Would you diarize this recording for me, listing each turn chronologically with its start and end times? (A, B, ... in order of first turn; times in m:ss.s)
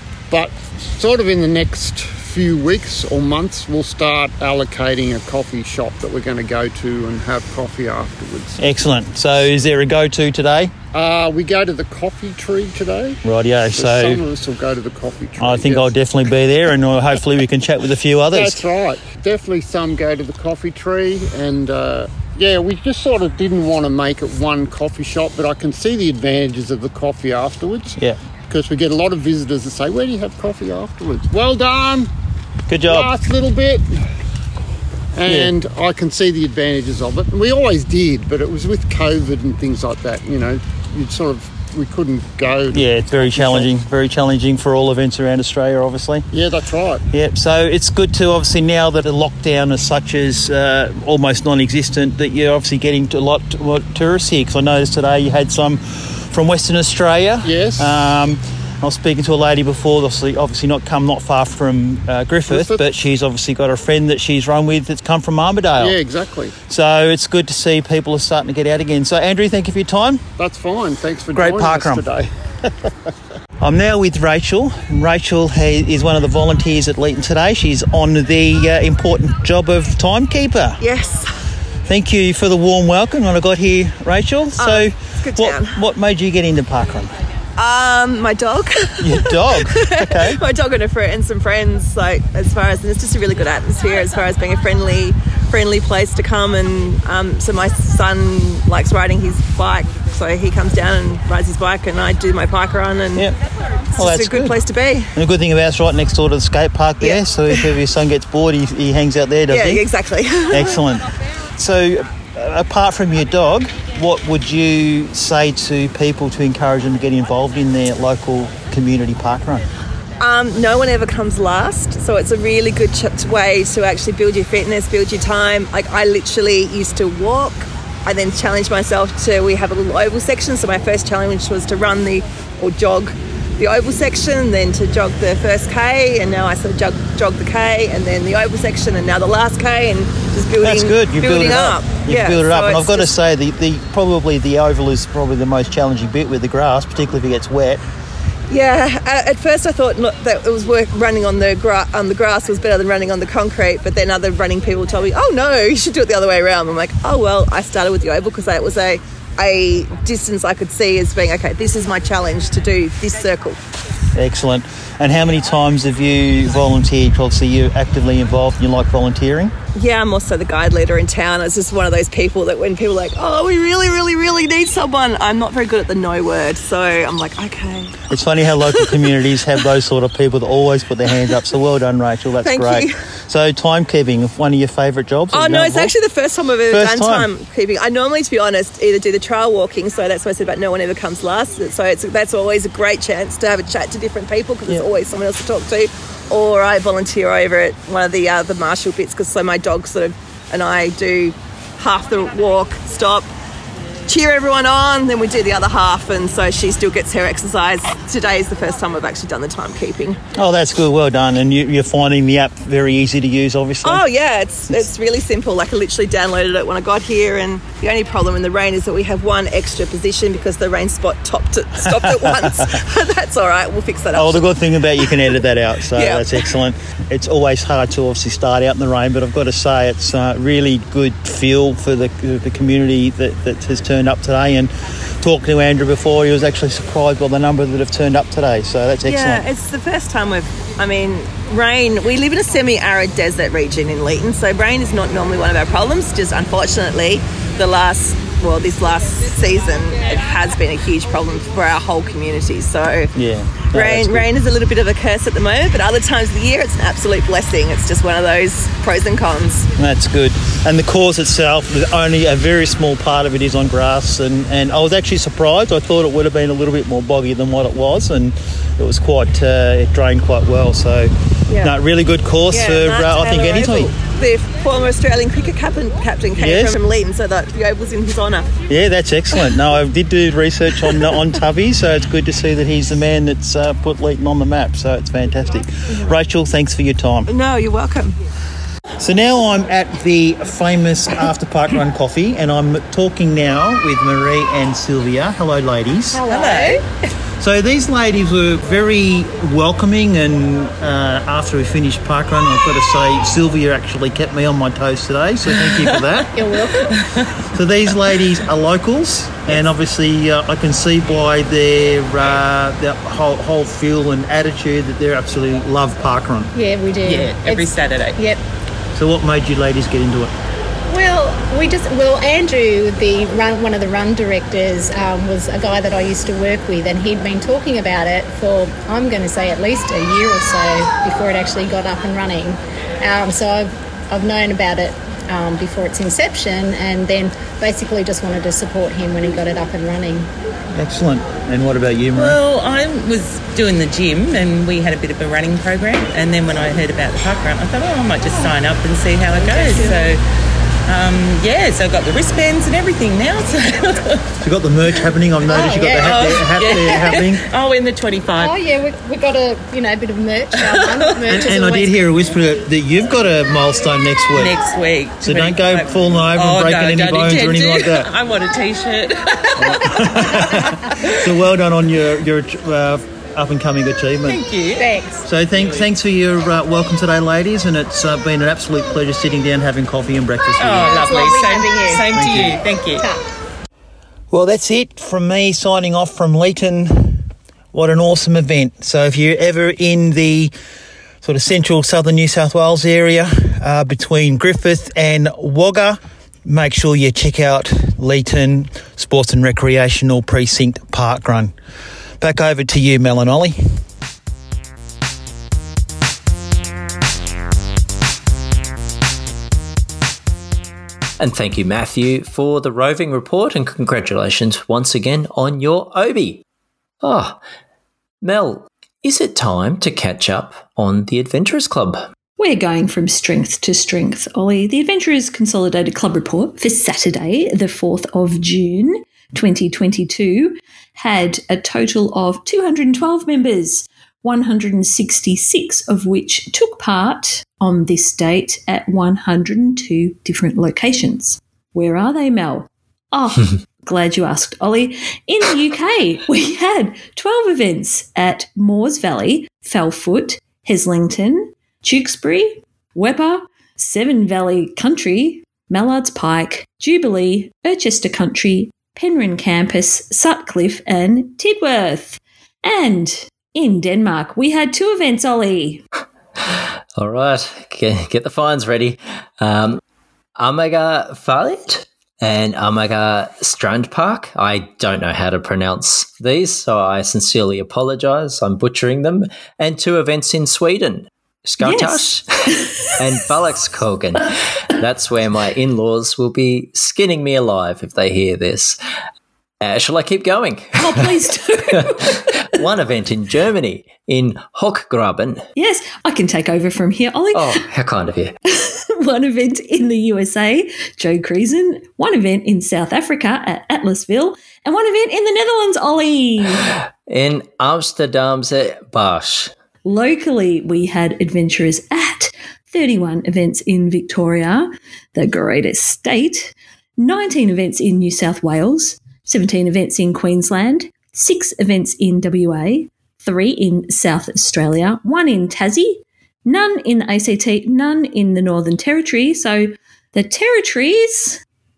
0:00.3-0:08.6 A
0:08.6-0:10.7 B
0:10.9-0:16.0 A
0:13.2-0:14.2 B
0:15.4-0:18.6 B
0:18.3-0:32.1 A
0:32.7-0:33.1 B
0:32.8-0:33.9 A
0:35.1-0:43.7 A
0:35.2-0:35.5 B
0:42.7-0:46.2 B
0:46.3-0:47.0 A
0:47.1-1:06.0 B
0:57.4-0:58.0 A
1:02.5-1:02.9 A
1:05.8-1:06.5 A
1:06.7-1:10.2 B
1:10.4-1:12.9 A
1:11.3-1:12.0 B
1:13.6-1:20.8 B
1:20.8-1:21.3 C
1:21.8-1:27.1 B
1:24.6-1:25.8 C
1:27.6-1:43.3 C
1:29.0-1:30.4 B
1:43.9-1:44.6 B
1:44.0-1:45.1 C
1:45.2-1:49.8 B
1:47.0-1:47.6 C
1:49.5-1:50.8 C
1:50.5-1:59.6 B
2:00.2-2:23.1 C
2:20.6-2:27.8 B
2:28.5-2:43.6 C
2:44.2-2:49.6 B
2:49.7-2:58.0 C
2:58.1-3:05.9 B
3:02.4-3:03.0 C
3:05.3-3:23.3 C
3:06.7-3:07.3 B
3:24.1-3:30.2 C
3:30.4-3:34.0 B
3:33.8-3:45.2 C
3:42.0-3:42.3 B
3:44.1-3:59.4 B
3:45.9-3:46.4 C
3:59.0-4:13.1 C
4:13.1-4:14.3 B
4:13.7-4:19.7 C
4:19.8-4:33.9 B
4:31.5-4:31.7 C
4:32.5-4:38.5 C
4:36.4-4:36.8 B
4:38.7-4:47.3 B
4:40.8-4:41.1 C
4:47.3-4:48.2 C
4:49.0-4:56.2 B
4:56.1-4:56.8 D
4:56.3-4:56.8 E
4:57.4-5:06.3 B
5:05.5-5:07.3 E
5:06.3-5:07.0 D
5:07.5-5:16.5 B
5:16.5-5:18.4 D
5:17.0-5:18.2 E
5:18.9-5:20.3 B
5:20.9-5:40.3 D
5:40.7-5:42.4 B
5:42.1-5:50.2 E
5:49.4-5:50.1 D
5:50.9-5:54.2 E
5:54.4-5:57.4 B
5:55.5-5:56.2 D
5:56.0-5:58.6 E
5:58.4-6:02.0 D
6:00.5-6:01.2 E
6:01.3-6:04.6 B
6:04.3-6:11.4 E
6:05.2-6:08.1 B
6:09.9-6:14.4 B
6:14.2-6:15.9 E
6:14.8-6:15.2 D
6:15.2-6:21.0 B
6:20.6-6:23.0 E
6:20.8-6:22.1 D
6:22.1-6:22.7 B
6:24.3-6:30.5 B
6:31.2-6:41.5 B
6:42.2-6:43.6 B
6:51.2-6:56.4 F
6:57.0-6:57.4 F
6:58.2-7:02.1 F
7:02.4-7:45.8 G
7:46.5-7:49.8 F
7:50.4-8:08.8 F
8:01.6-8:03.0 G
8:09.6-8:15.5 F
8:10.8-8:12.5 G
8:15.6-8:17.6 G
8:17.3-8:18.3 F
8:18.5-8:26.7 G
8:26.7-8:29.5 F
8:29.8-8:51.4 G